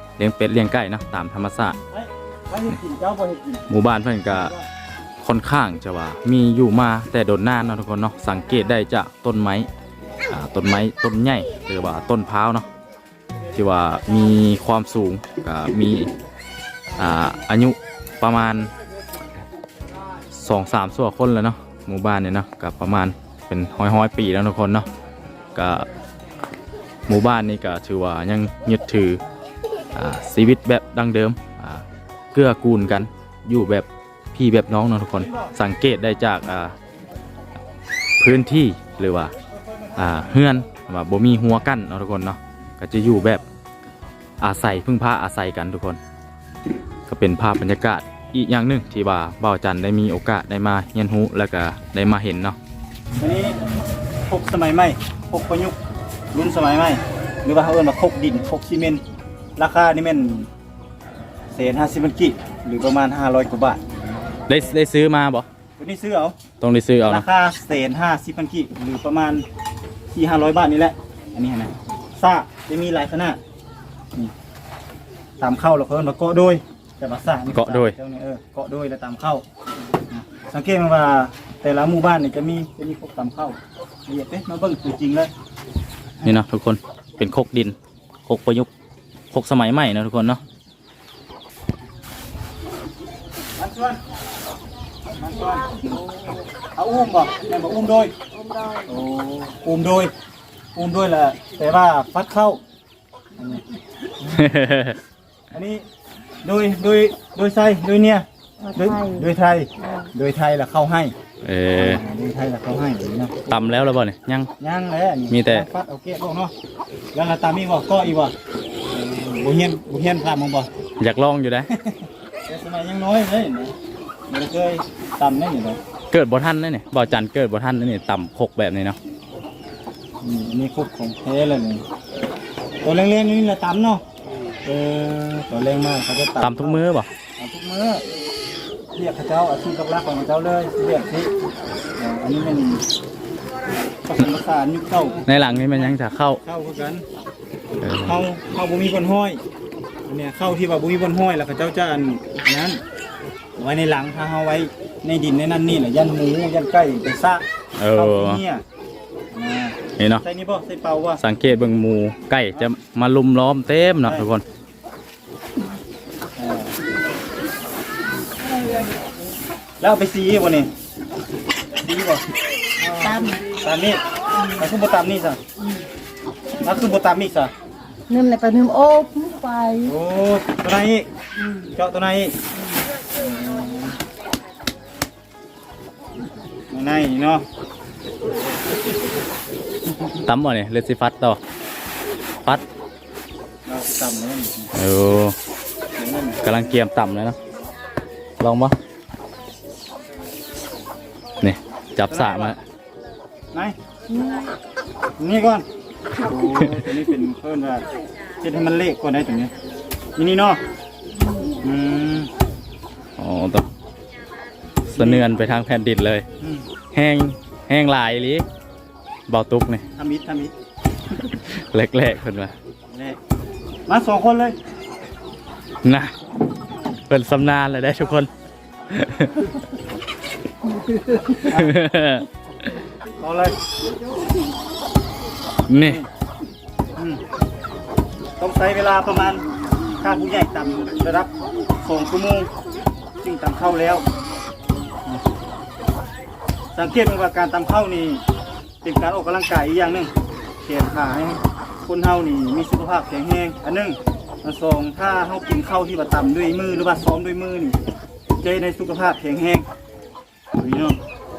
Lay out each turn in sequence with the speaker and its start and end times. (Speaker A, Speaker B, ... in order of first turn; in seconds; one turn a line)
Speaker A: 0.2-1.8
Speaker B: 1.9-3.7
Speaker A: 3.7-4.5
Speaker B: 4.3-4.6
Speaker A: 5.2-9.7
Speaker A: 10.3-12.7
Speaker A: 13.5-16.1
Speaker A: 17.0-18.7
Speaker A: 20.3-24.9
Speaker A: 25.6-25.9
Speaker A: 27.1-29.2
Speaker A: 29.9-36.8
Speaker B: 35.2-35.5
Speaker A: 38.2-39.3
Speaker A: 40.0-43.4
Speaker A: 44.4-46.0
Speaker A: 47.1-52.6
Speaker B: 53.2-53.6
Speaker B: 54.3-55.8
Speaker B: 56.3-59.0
Speaker B: 59.6-60.5
Speaker B: 61.5-63.8
Speaker A: 64.5-65.5
Speaker B: 65.8-66.4
Speaker A: 66.6-67.2
Speaker B: 67.0-69.5
Speaker B: 70.1-73.4
Speaker B: 75.4-79.4
Speaker A: 77.5-78.0
Speaker B: 80.1-85.3
Speaker A: 86.2-88.7
Speaker A: 89.3-90.4
Speaker B: 93.6-94.0
Speaker B: 95.2-95.9
Speaker B: 96.8-98.1
Speaker C: 98.5-98.8
Speaker B: 98.8-100.1
Speaker B: 100.8-102.6
Speaker A: 104.3-105.0
Speaker B: 105.5-105.8
Speaker B: 106.4-111.1
Speaker A: 111.4-112.0
Speaker B: 111.8-113.5
Speaker A: 113.5-114.5
Speaker B: 114.6-116.5
Speaker A: 115.3-115.7
Speaker B: 117.1-118.3
Speaker B: 118.9-120.7
Speaker A: 121.0-121.7
Speaker B: 122.5-123.7
Speaker B: 124.3-125.8
Speaker A: 126.1-129.0
Speaker B: 130.2-131.8
Speaker B: 132.8-134.0
Speaker B: 134.7-136.8
Speaker A: 136.4-137.1
Speaker B: 137.4-138.0
Speaker B: 138.9-141.3
Speaker B: 142.0-142.8
Speaker B: 144.1-147.1
Speaker A: 145.3-146.4
Speaker A: 147.8-148.2
Speaker B: 148.1-149.4
Speaker B: 150.1-152.8
Speaker B: 153.6-158.6
Speaker A: 157.8-158.4
Speaker B: 159.3-161.2
Speaker A: 160.0-160.2
Speaker A: 161.2-164.4
Speaker B: 166.4-166.8
Speaker B: 169.8-170.7
Speaker B: 171.8-172.2
Speaker B: 172.8-174.0
Speaker C: 173.1-173.4
Speaker B: 174.5-175.4
Speaker B: 176.6-177.5
Speaker C: 178.1-179.9
Speaker B: 179.8-182.4
Speaker B: 183.1-184.0
Speaker B: 186.7-187.4
Speaker A: 190.2-191.4
Speaker B: 193.7-194.7
Speaker A: 194.7-195.4
Speaker B: 195.9-196.4
Speaker A: 196.4-197.4
Speaker A: 198.4-198.8
Speaker A: 201.4-202.6
Speaker B: 202.1-202.6
Speaker B: 205.2-207.9
Speaker B: 208.4-209.5
Speaker B: 210.2-210.6
Speaker B: 211.4-212.3
Speaker A: 213.2-213.7
Speaker A: 214.9-216.2
Speaker B: 215.0-215.3
Speaker B: 216.4-216.7
Speaker A: 216.9-218.5
Speaker A: 219.3-219.9
Speaker B: 220.0-220.5
Speaker A: 221.2-222.5
Speaker B: 222.9-223.2
Speaker B: 223.9-224.6
Speaker A: 225.8-226.1
Speaker A: 227.1-228.3
Speaker A: 228.9-229.5
Speaker A: 231.1-232.7
Speaker B: 231.4-231.8
Speaker B: 233.2-233.6
Speaker A: 235.7-236.0
Speaker B: 237.0-237.2
Speaker B: 238.4-239.5
Speaker B: 240.0-242.5
Speaker B: 243.2-244.1
Speaker B: 246.7-248.2
Speaker B: 248.8-250.1
Speaker B: 250.6-257.8
Speaker B: 258.4-259.7
Speaker B: 260.6-261.0